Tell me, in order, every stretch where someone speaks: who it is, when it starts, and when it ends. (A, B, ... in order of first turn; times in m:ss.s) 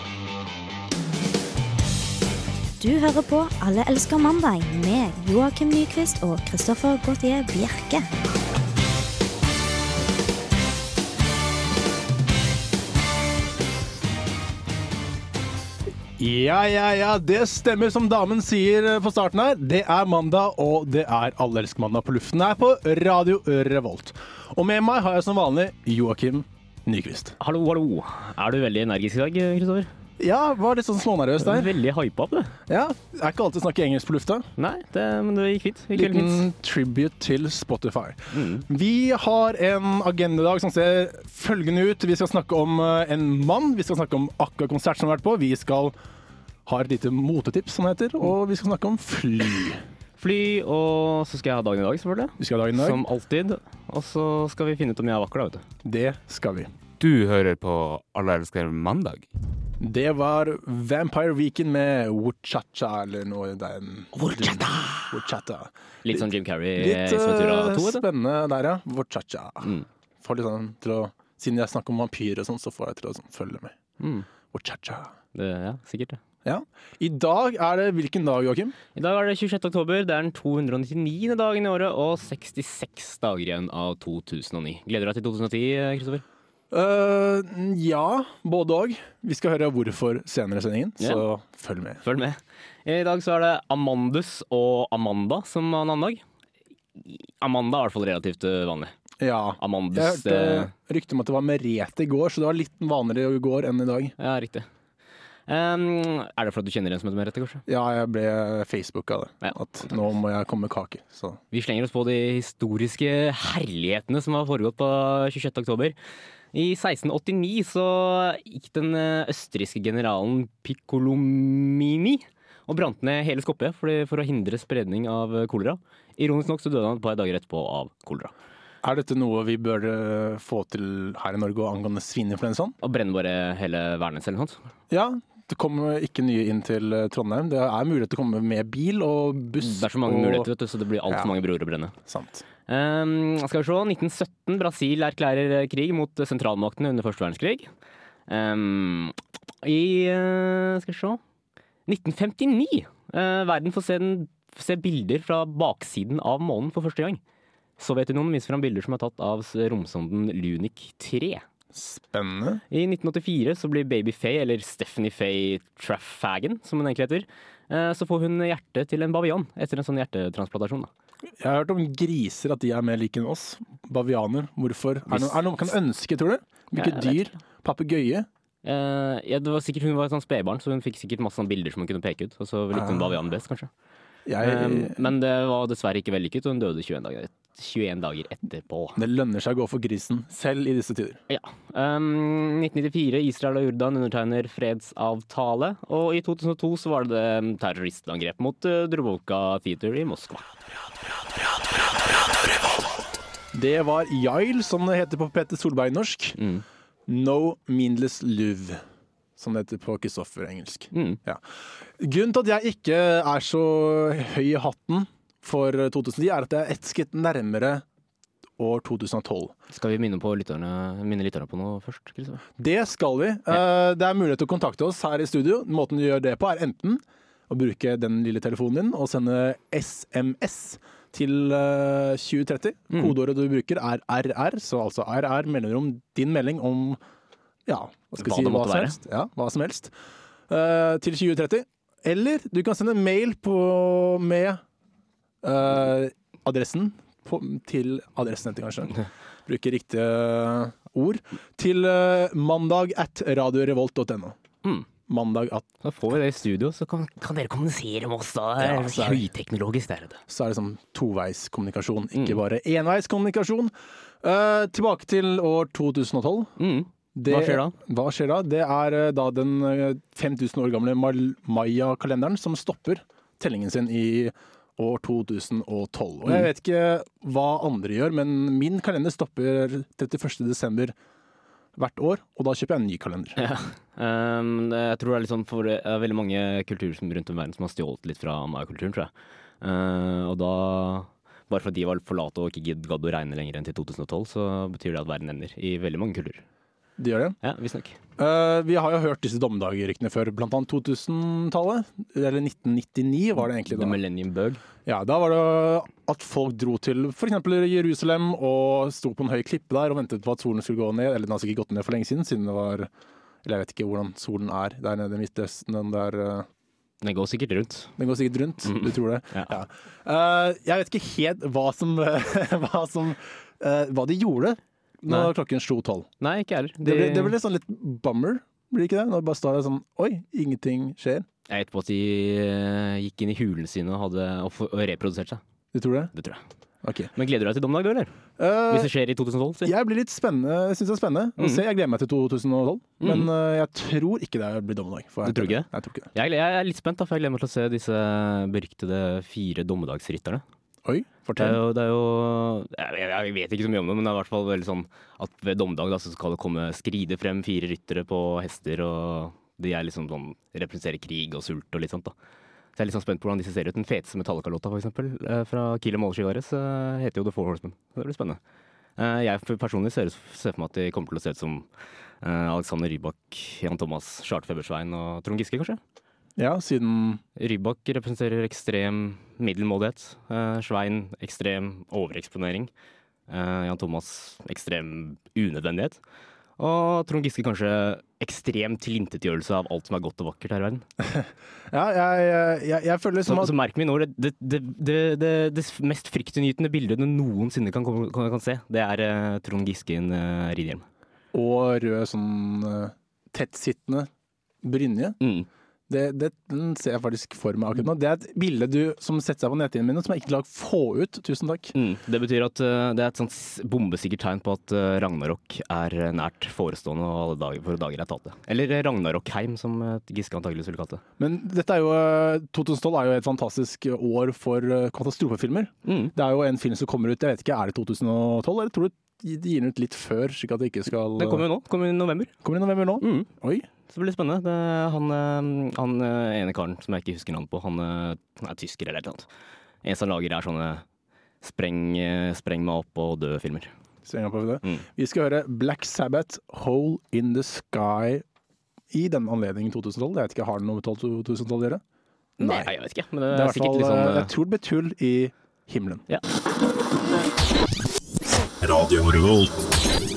0:02.8-0:08.1 A
0:16.2-0:27.4 B
0:27.4-0:29.9 C
0:30.2-0:31.7 B
0:31.4-0:32.6 C
0:32.7-0:34.5 B
0:34.6-0:36.4 C
0:35.9-0:46.0 B
0:38.3-0:38.6 C
0:46.7-0:49.8 B
0:50.2-0:55.6 C
0:52.4-0:53.0 B
0:55.8-0:56.7 B
0:57.0-0:59.3 D
0:59.8-1:04.5 B
1:04.2-1:05.1 C
1:05.1-1:13.8 B
1:06.0-1:08.0 C
1:14.0-1:14.3 C
1:14.5-1:15.1 B
1:15.3-1:16.2 C
1:16.4-1:18.8 B
1:19.0-1:26.2 C
1:26.7-1:32.0 B
1:32.0-1:36.2 C
1:37.0-1:38.9 C
1:39.2-1:44.2 B
1:39.6-1:40.7 C
1:44.2-1:44.7 C
1:45.5-1:47.6 C
1:47.7-1:51.4 B
1:51.5-1:56.0 C
1:56.5-2:08.3 C
2:08.8-2:12.8 B
2:12.8-2:14.6 C
2:14.9-2:20.5 B
2:19.6-2:21.9 C
2:22.1-2:22.4 B
2:22.7-2:27.7 C
2:28.3-2:31.2 C
2:31.9-2:37.2 C
2:37.8-2:41.4 C
2:41.7-2:42.6 B
2:42.7-2:50.9 C
2:51.4-2:58.3 B
2:55.1-2:55.4 C
2:56.8-2:57.3 C
2:58.6-3:03.7 C
3:02.7-3:03.1 B
3:04.3-3:05.0 B
3:04.4-3:09.0 C
3:09.0-3:11.2 B
3:11.3-3:20.4 C
3:23.5-3:26.4 B
3:26.4-3:26.6 C
3:27.1-3:28.8 B
3:29.4-3:31.4 B
3:30.9-3:31.2 C
3:32.0-3:37.8 B
3:38.6-3:39.5 B
3:39.7-3:42.4 C
3:42.6-3:57.0 B
3:57.7-3:59.9 B
3:58.2-3:59.0 C
4:00.5-4:04.6 B
4:05.4-4:14.4 B
4:15.1-4:15.6 B
4:15.8-4:20.2 C
4:18.6-4:19.3 B
4:20.3-4:26.5 B
4:26.6-4:27.8 C
4:27.2-4:41.0 B
4:41.8-4:43.4 B
4:43.4-4:49.1 C
4:49.6-4:56.4 C
4:57.0-4:57.4 B
4:57.4-4:58.0 C
4:58.2-5:04.0 B
5:03.7-5:04.6 C
5:04.8-5:12.9 B
5:13.4-5:16.5 B
5:17.0-5:18.0 C
5:18.0-5:26.1 B
5:18.6-5:19.5 C
5:26.2-5:27.4 C
5:26.8-5:31.3 B
5:31.5-5:35.4 C
5:35.7-5:36.1 B
5:36.1-5:36.4 C
5:36.8-5:37.1 B
5:37.2-5:38.1 C
5:38.4-5:38.9 B
5:38.7-5:39.7 C
5:39.6-5:46.1 B
5:43.0-5:43.3 C
5:45.2-5:50.4 C
5:50.8-5:51.6 B
5:51.4-6:02.1 C
6:02.8-6:08.4 C
6:09.0-6:11.7 C
6:12.2-6:15.8 C
6:16.4-6:17.2 B
6:17.4-6:22.7 C
6:23.3-6:26.0 C
6:26.6-6:30.9 C
6:31.1-6:33.5 B
6:33.2-6:40.9 C
6:41.3-6:44.1 B
6:44.6-6:45.2 B
6:45.2-6:45.5 C
6:45.9-6:51.7 B
6:51.8-7:01.0 C
7:01.2-7:11.4 B
7:05.8-7:06.1 C
7:11.2-7:12.4 C
7:12.4-7:13.7 B
7:13.0-7:13.3 C
7:13.9-7:19.3 C
7:19.8-7:20.8 C
7:21.4-7:23.7 C
7:24.1-7:28.2 B
7:28.9-7:31.8 B
7:32.4-7:34.3 C
7:32.4-7:32.7 B
7:33.3-7:36.0 B
7:38.6-7:39.6 C